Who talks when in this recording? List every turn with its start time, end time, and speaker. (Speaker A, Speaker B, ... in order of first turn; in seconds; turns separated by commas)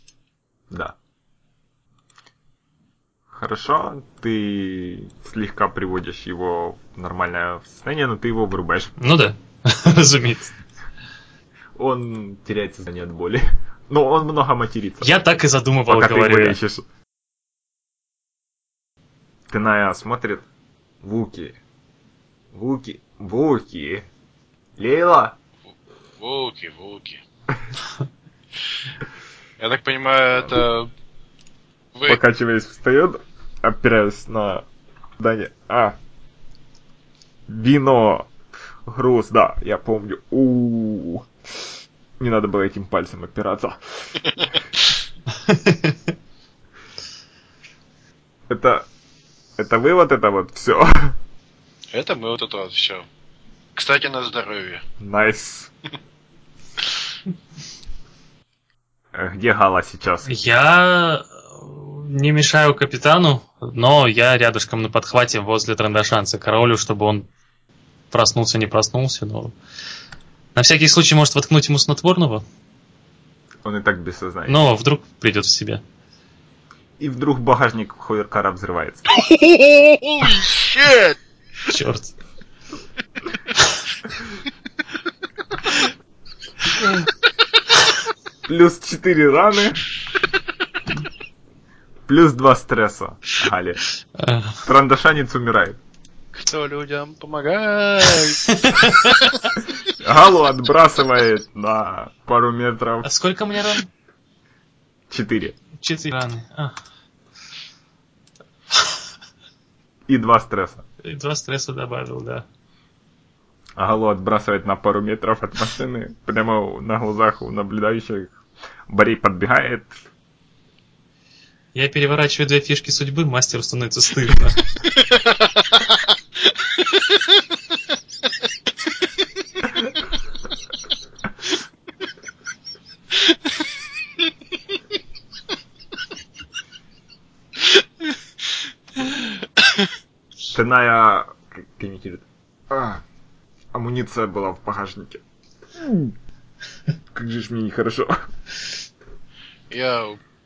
Speaker A: 0.7-0.9, Speaker A: 3.3-8.9, Speaker B: 9.0-10.5, Speaker A: 11.8-15.2, Speaker B: 15.0-16.6, Speaker A: 15.9-16.8, Speaker A: 19.5-20.4, Speaker A: 21.0-21.6, Speaker A: 22.5-24.1, Speaker A: 24.8-25.4, Speaker C: 26.2-27.2, Speaker C: 29.6-30.9, Speaker C: 31.9-32.2, Speaker A: 32.0-34.6, Speaker A: 35.2-36.0, Speaker A: 37.5-38.3, Speaker A: 38.9-41.3, Speaker A: 42.2-44.1, Speaker B: 45.5-45.9, Speaker A: 48.5-48.9, Speaker A: 49.6-51.1, Speaker C: 51.9-53.0, Speaker C: 53.8-54.8, Speaker A: 55.0-55.7, Speaker A: 59.1-60.4, Speaker B: 60.2-67.3, Speaker B: 68.1-69.5, Speaker B: 70.5-72.4, Speaker A: 73.6-74.6, Speaker B: 74.5-75.8, Speaker A: 77.0-79.1, Speaker C: 79.1-81.2, Speaker B: 81.7-82.1, Speaker A: 88.5-89.8, Speaker A: 92.1-93.8, Speaker B: 94.2-94.6, Speaker A: 94.6-95.8, Speaker C: 96.3-98.5, Speaker B: 98.5-99.2, Speaker A: 100.0-103.1, Speaker B: 103.0-103.9, Speaker A: 105.1-105.5, Speaker B: 105.8-106.7, Speaker A: 110.1-110.8, Speaker B: 111.0-112.4, Speaker A: 113.8-118.3, Speaker A: 118.9-119.9, Speaker B: 121.7-124.6, Speaker C: 125.2-125.9, Speaker C: 139.1-139.9, Speaker A: 140.5-143.0, Speaker A: 143.7-145.2, Speaker A: 145.8-146.1, Speaker A: 147.1-148.2, Speaker C: 149.7-150.2